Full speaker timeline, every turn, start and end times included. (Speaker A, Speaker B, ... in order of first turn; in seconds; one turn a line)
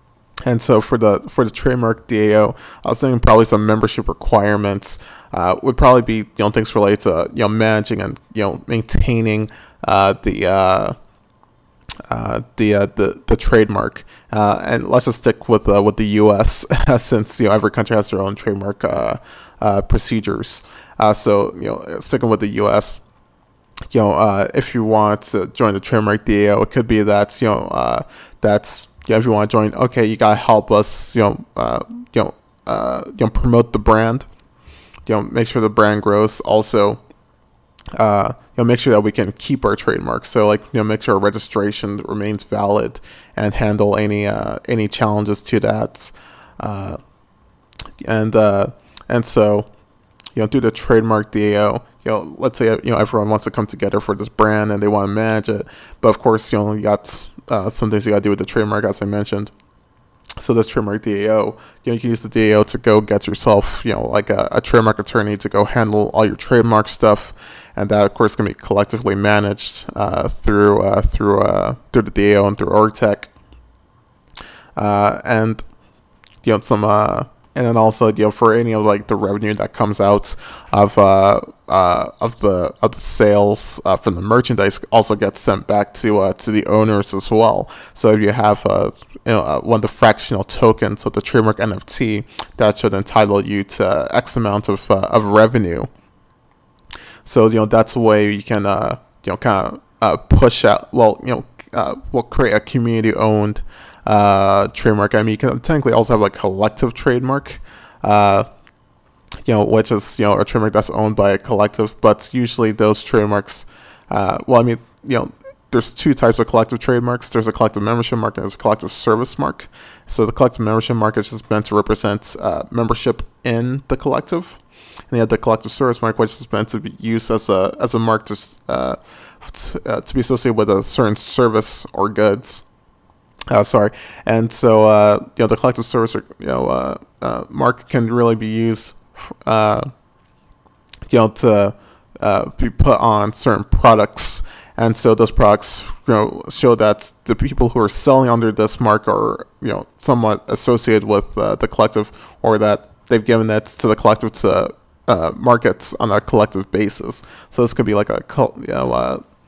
Speaker A: 0.4-10.9
Speaker A: 12.1-23.0
Speaker A: 23.9-34.2
Speaker A: 35.0-37.0
Speaker A: 38.0-47.0
Speaker A: 48.0-49.7
Speaker A: 50.3-59.5
Speaker A: 60.4-73.3
Speaker A: 74.8-75.6
Speaker A: 76.4-95.9
Speaker A: 97.2-108.5
Speaker A: 109.4-124.6
Speaker A: 125.1-132.6
Speaker A: 133.5-139.9
Speaker A: 141.1-159.2